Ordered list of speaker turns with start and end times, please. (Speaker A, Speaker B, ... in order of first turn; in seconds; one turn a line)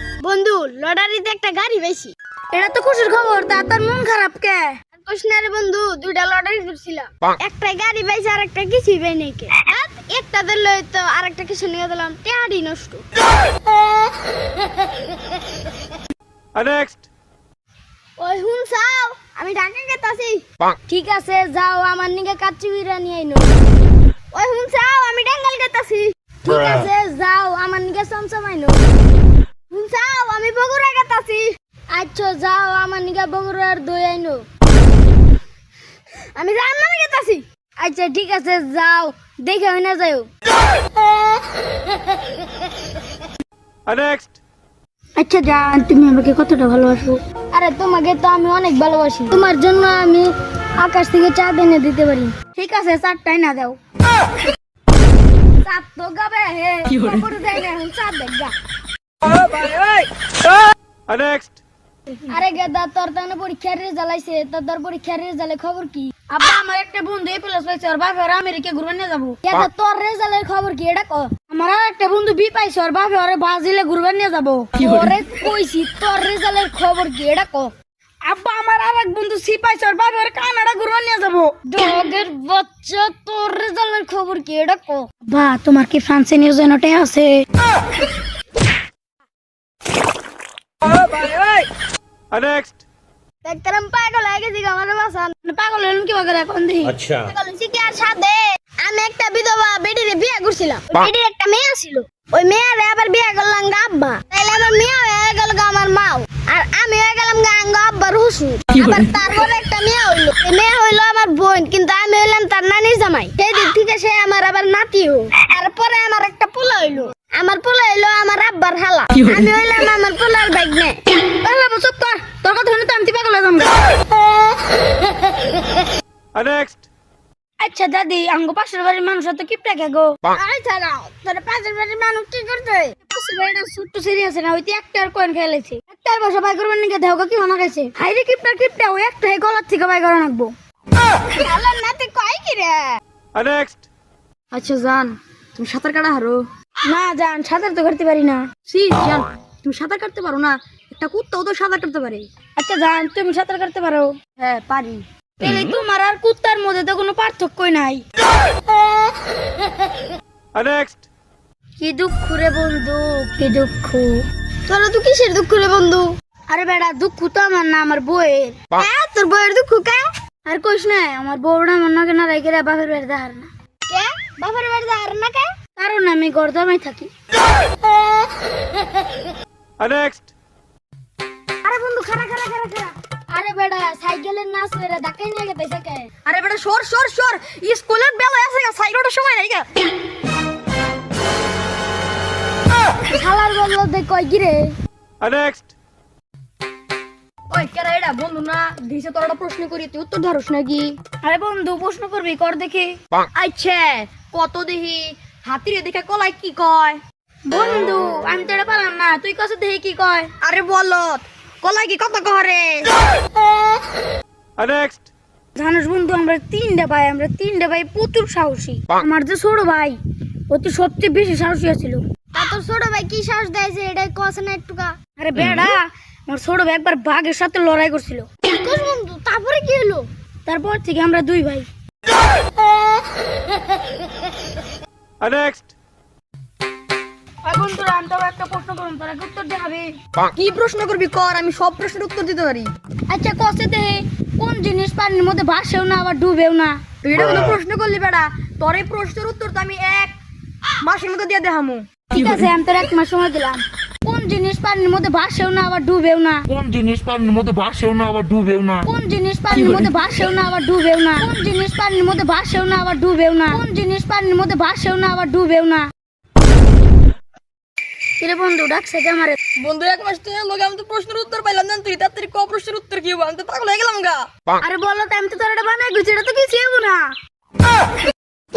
Speaker A: 0.2-2.1
Speaker B: 2.5-4.7
Speaker A: 5.0-13.0
Speaker C: 16.6-17.0
Speaker A: 18.2-20.4
Speaker B: 20.9-23.5
Speaker A: 24.3-26.1
Speaker B: 26.4-28.8
Speaker A: 29.7-31.5
Speaker B: 31.9-34.4
Speaker A: 36.4-37.4
Speaker B: 37.8-40.3
Speaker B: 41.1-41.4
Speaker C: 43.9-44.2
Speaker B: 45.2-53.8
Speaker B: 55.6-58.5
Speaker A: 59.3-60.1
Speaker B: 62.3-77.7
Speaker B: 78.2-87.4
Speaker A: 90.9-91.7
Speaker A: 93.4-95.3
Speaker B: 95.4-97.0
Speaker D: 96.9-97.3
Speaker A: 97.2-121.0
Speaker B: 121.4-123.7
Speaker C: 126.3-126.8
Speaker B: 127.6-130.1
Speaker A: 130.3-131.2
Speaker A: 131.8-132.1
Speaker B: 133.0-140.5
Speaker A: 141.4-142.9
Speaker A: 144.5-146.4
Speaker D: 145.6-146.4
Speaker B: 146.8-148.5
Speaker A: 148.7-152.3
Speaker D: 148.7-150.5
Speaker D: 151.0-152.2
Speaker B: 152.6-154.2
Speaker A: 154.4-155.0
Speaker B: 155.4-158.0
Speaker C: 160.6-161.0
Speaker B: 161.8-164.2
Speaker A: 164.7-166.1
Speaker B: 166.5-168.6
Speaker A: 168.8-170.0
Speaker B: 170.4-173.5
Speaker A: 173.9-175.5
Speaker B: 175.8-177.1
Speaker B: 181.6-186.1
Speaker D: 186.2-189.7
Speaker A: 189.3-189.6
Speaker B: 193.1-194.7
Speaker D: 197.5-200.9
Speaker A: 198.5-200.9
Speaker B: 201.2-203.0
Speaker D: 203.4-207.0
Speaker A: 203.4-204.6
Speaker A: 205.3-206.9
Speaker B: 207.5-210.3
Speaker D: 210.4-212.9
Speaker A: 210.6-211.1
Speaker C: 214.6-215.0
Speaker B: 215.5-220.0
Speaker B: 220.5-222.0
Speaker A: 222.3-224.9
Speaker B: 225.2-228.3
Speaker B: 230.4-231.7
Speaker B: 237.4-239.9
Speaker D: 240.3-242.7
Speaker A: 240.7-242.7
Speaker B: 243.1-246.8
Speaker A: 247.1-248.3
Speaker D: 247.1-250.1
Speaker A: 249.8-250.1
Speaker D: 250.8-251.8
Speaker B: 252.1-256.4
Speaker E: 256.5-258.9
Speaker B: 258.8-265.9
Speaker B: 268.2-269.4
Speaker A: 269.6-274.2
Speaker D: 269.6-274.1
Speaker B: 274.6-277.1